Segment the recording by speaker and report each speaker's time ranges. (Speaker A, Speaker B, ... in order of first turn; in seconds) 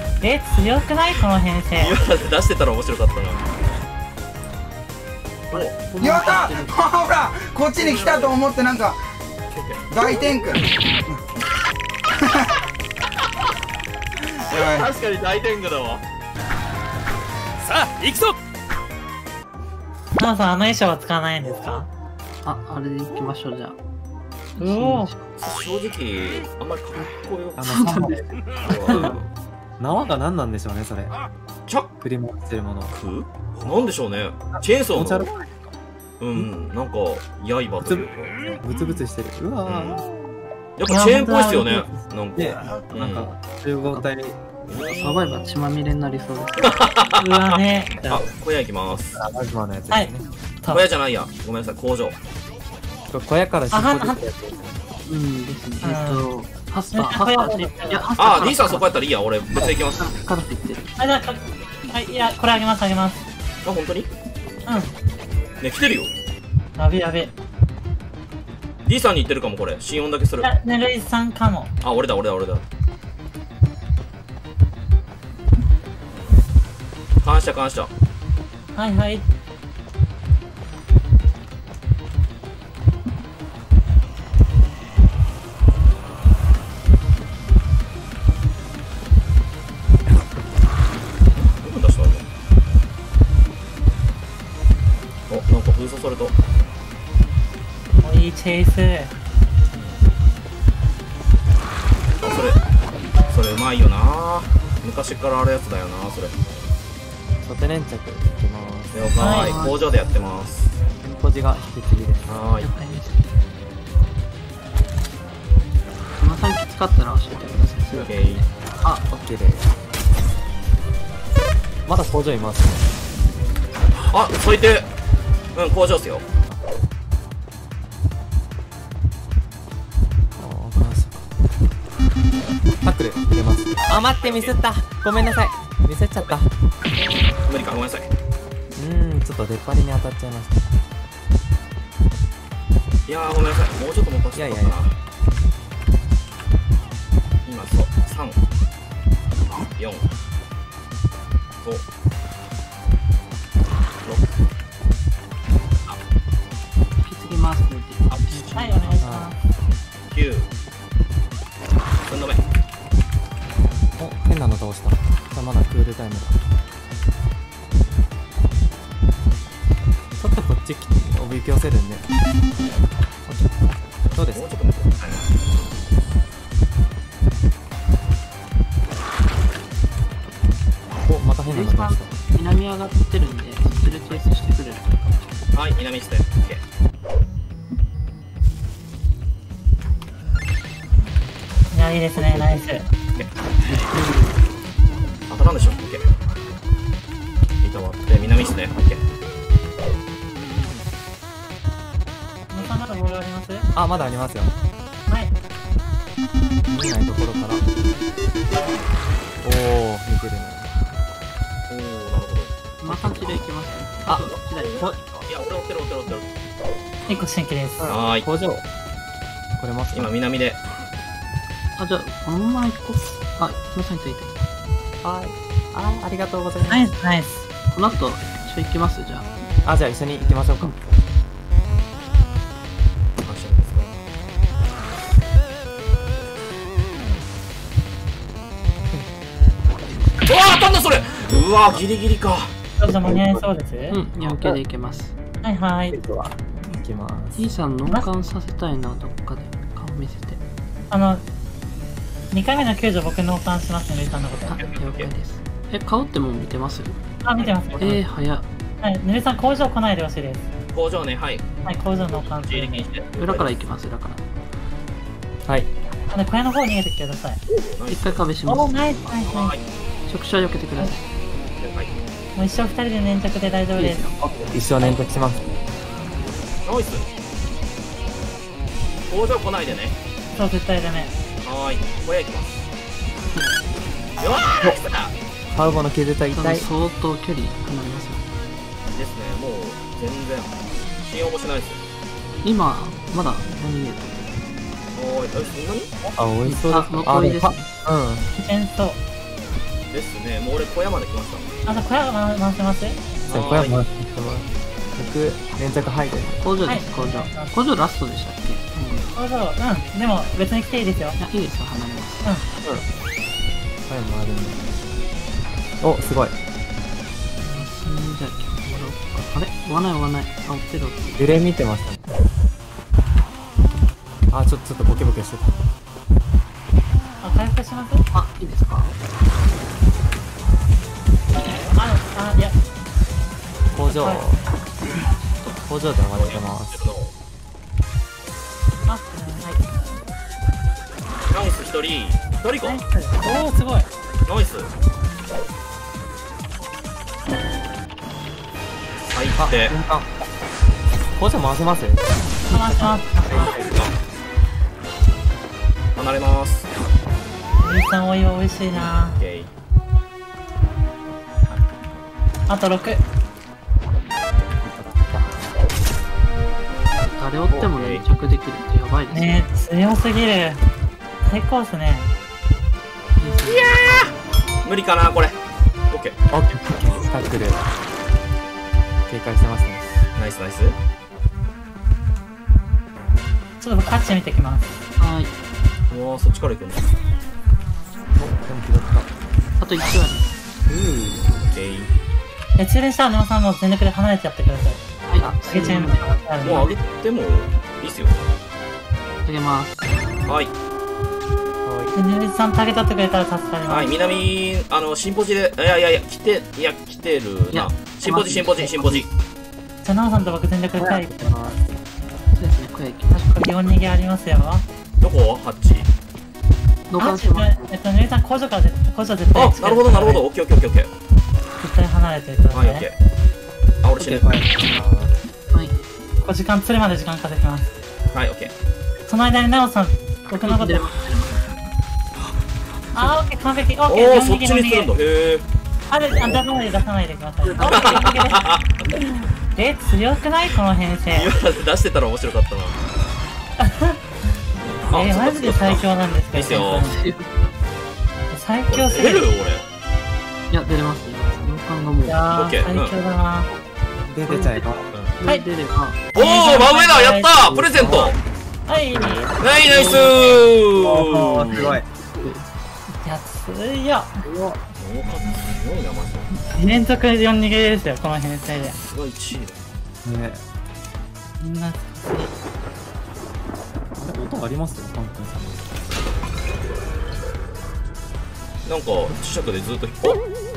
Speaker A: 0.2-2.0, 20.2-21.9, 24.6-25.1, 40.9-41.9, 47.2-48.2, 49.9-50.8, 53.7-54.2, 55.8-56.3, 56.9-58.0, 61.0-63.2, 64.7-64.9, 66.8-67.3, 70.4-71.7, 78.7-79.2, 98.0-99.1, 109.2-109.6, 158.5-159.3, 191.7-192.8, 202.5-203.7, 205.1-205.3, 217.1-217.9, 226.7-227.4, 242.8-244.0, 245.4-246.0, 250.9-251.2, 252.3-254.6, 257.2-258.0, 258.8-260.5, 261.6-262.9, 266.1-267.4, 268.4-269.6, 272.3-274.1, 280.3-281.1, 298.3-299.0, 301.6-303.0, 306.6-307.6, 309.1-311.2, 327.2-328.1, 331.7-332.6, 333.8-334.2, 338.9-339.9, 342.6-343.9, 352.5-353.6, 357.6-359.2, 362.5-363.0, 369.1-370.6, 371.2-372.1, 383.6-384.8, 392.6-396.7, 401.9-403.9, 409.8-411.5, 413.1-414.6, 417.0-420.2, 421.6-422.9, 426.2-427.7, 429.1-430.9, 432.9-434.9, 435.9-441.3, 443.6-443.9, 444.9-447.0, 448.3-449.3, 452.0-453.5, 456.1-457.3, 458.7-459.3, 463.0-464.1, 466.5-468.8, 471.4-472.3
Speaker B: 1.8-3.5, 7.8-8.4, 9.5-9.8, 14.5-16.0, 17.6-18.3, 25.4-27.6, 28.6-29.2, 32.9-35.3, 36.2-38.4, 39.6-40.0, 40.8-43.3, 44.7-45.2, 46.6-47.2, 48.1-49.2, 50.7-52.2, 58.2-60.1, 63.6-64.1, 65.6-66.1, 68.8-70.5, 71.8-72.6, 77.2-77.9, 91.4-92.2, 95.3-96.3, 99.7-100.0, 102.2-102.6, 103.3-106.4, 108.9-110.7, 112.3-112.7, 117.9-118.4, 124.1-124.9, 125.5-126.3, 134.1-134.5, 137.4-138.1, 143.1-144.9, 147.4-148.4, 149.7-150.1, 154.0-154.4, 158.1-159.0, 160.1-160.5, 162.1-162.4, 174.2-175.3, 185.5-186.6, 195.3-196.1, 197.6-199.0, 211.7-213.4, 215.2-216.3, 217.9-218.3, 219.9-220.6, 233.2-234.0, 240.2-242.5, 254.6-255.1, 260.7-261.5, 262.1-263.6, 267.5-268.2, 269.2-269.6, 271.6-271.9, 276.6-277.1, 279.1-280.0, 281.4-282.5, 284.2-285.1, 288.9-291.8, 294.9-295.9, 299.9-301.5, 303.3-303.8, 336.1-337.1, 341.3-342.8, 344.2-344.7, 349.1-349.7, 353.3-353.9, 355.9-356.7, 358.8-359.5, 367.5-368.0, 373.5-374.1, 374.6-376.1, 380.1-380.8, 385.9-386.9, 391.3-391.9, 396.4-398.2, 400.2-400.5, 403.6-409.1, 415.0-415.9, 419.3-420.9, 422.5-422.9, 423.8-424.5, 428.1-428.5, 433.9-435.4, 437.6-438.9, 441.1-442.8, 444.8-446.9, 448.6-449.6, 452.3-453.0, 456.1-458.2, 459.4-461.7, 464.8-466.3, 468.7-469.6, 478.6-480.2
Speaker C: 5.5-6.8, 22.4-23.8, 24.5-25.2, 27.7-28.2, 44.8-46.7, 55.0-58.9, 59.5-60.9, 109.4-109.9, 112.5-113.3, 116.2-118.5, 157.0-159.0, 181.4-185.3, 212.8-215.3, 221.8-224.3, 227.7-229.3, 243.9-245.1, 247.3-250.4, 254.4-257.0, 257.8-258.4, 263.1-264.2, 267.9-269.2, 270.1-271.1, 273.7-274.4, 286.3-288.2, 292.4-294.4, 296.4-297.7, 306.4-309.1, 311.2-312.2, 317.4-321.3, 328.1-329.0, 334.9-335.5, 367.1-369.4, 373.2-374.2, 385.0-385.3, 389.6-390.3, 395.1-396.7, 399.2-399.9, 407.5-409.1, 412.3-413.3, 416.9-417.7, 425.5-425.8, 430.4-431.4, 437.4-437.9, 446.5-447.3, 450.5-452.2, 454.3-456.0, 457.5-458.1, 459.6-460.1, 462.1-462.5
Speaker D: 6.0-9.0, 9.9-11.2, 14.5-14.9
Speaker E: 27.6-29.3, 29.8-31.1, 31.9-32.9, 34.5-35.7, 37.8-40.1, 42.3-44.4, 49.0-50.3, 53.1-54.6, 107.4-109.4, 111.0-112.4, 118.8-119.7, 121.8-122.8, 130.4-131.2, 132.8-136.5, 138.8-140.7, 144.3-144.8, 159.0-159.3, 164.0-166.4, 170.2-172.1, 173.3-174.4, 181.0-182.2, 203.7-204.5, 206.7-207.6, 209.4-210.7, 214.0-215.0, 217.8-218.6, 219.6-220.2, 225.0-226.8, 229.6-230.7, 242.9-243.4, 245.9-247.4, 257.4-257.9, 274.2-275.4, 285.5-286.7, 296.1-298.3, 303.3-306.5, 313.9-314.7, 315.8-316.3, 321.2-322.0, 324.3-325.6, 333.7-334.4, 335.5-336.8, 349.3-350.1, 351.2-353.5, 364.8-365.2, 376.3-377.6, 379.1-379.9, 388.1-389.1, 401.6-401.9, 411.0-411.7, 424.0-425.1, 454.1-454.9, 457.8-458.1, 458.9-459.3, 460.7-461.9, 464.2-464.6, 470.0-470.4, 474.0-475.6